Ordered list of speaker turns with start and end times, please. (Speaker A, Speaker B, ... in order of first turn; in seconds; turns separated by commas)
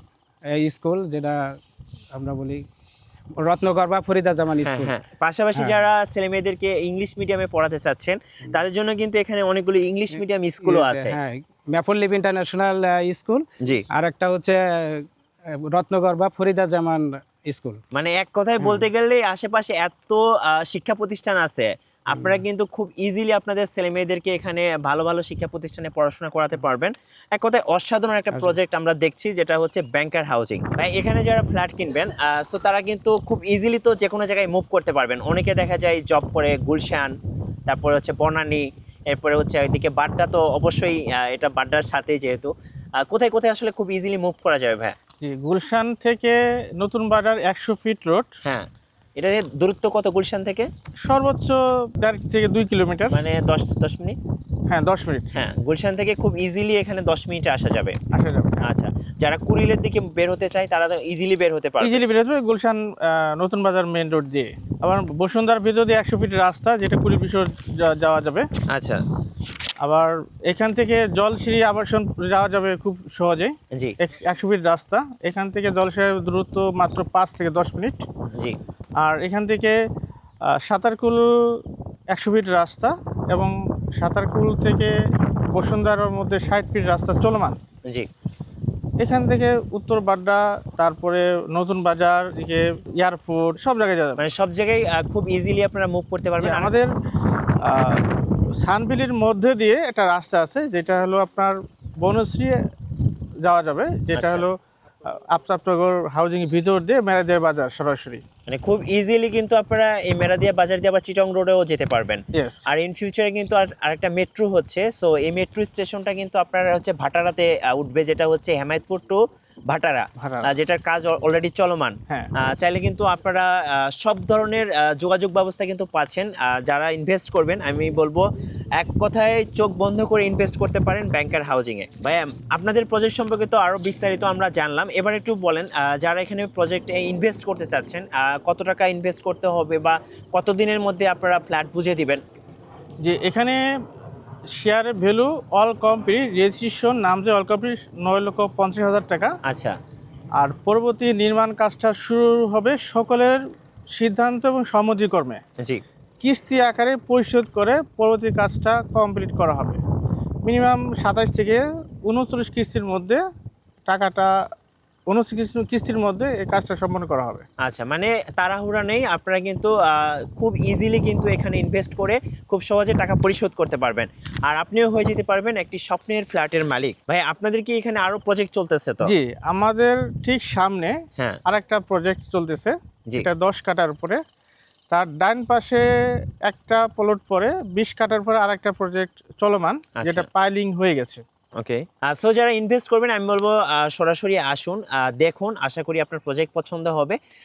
Speaker A: 3.5-4.9, Speaker B: 4.6-11.2, Speaker A: 10.7-13.2, Speaker A: 14.1-14.3, Speaker A: 16.1-16.7, Speaker B: 17.9-37.1, Speaker B: 37.7-42.5, Speaker B: 43.0-45.0, Speaker C: 45.2-48.3, Speaker B: 48.4-50.7, Speaker C: 51.0-53.2, Speaker B: 53.1-54.2, Speaker C: 54.7-55.3, Speaker B: 55.3-58.0, Speaker C: 58.1-58.7, Speaker B: 58.6-62.0, Speaker C: 61.8-68.5, Speaker B: 68.7-69.0, Speaker C: 69.8-78.1, Speaker C: 79.0-79.8, Speaker C: 80.5-84.9, Speaker C: 85.5-87.6, Speaker C: 89.0-94.2, Speaker B: 94.2-96.7, Speaker C: 96.4-96.9, Speaker C: 97.7-98.0, Speaker C: 98.6-102.6, Speaker C: 103.4-104.6, Speaker B: 104.1-104.5, Speaker C: 105.1-108.2, Speaker B: 108.5-128.2, Speaker C: 112.3-112.7, Speaker C: 120.2-120.5, Speaker B: 128.8-142.2, Speaker C: 143.0-143.6, Speaker C: 144.5-149.3, Speaker B: 149.5-149.8, Speaker C: 150.4-153.4, Speaker C: 153.9-155.4, Speaker C: 156.2-159.8, Speaker C: 160.4-163.2, Speaker C: 163.9-164.3, Speaker C: 165.1-167.4, Speaker B: 167.6-179.1, Speaker C: 179.0-184.2, Speaker C: 184.9-185.9, Speaker C: 186.5-191.2, Speaker B: 190.0-190.3, Speaker B: 191.6-197.2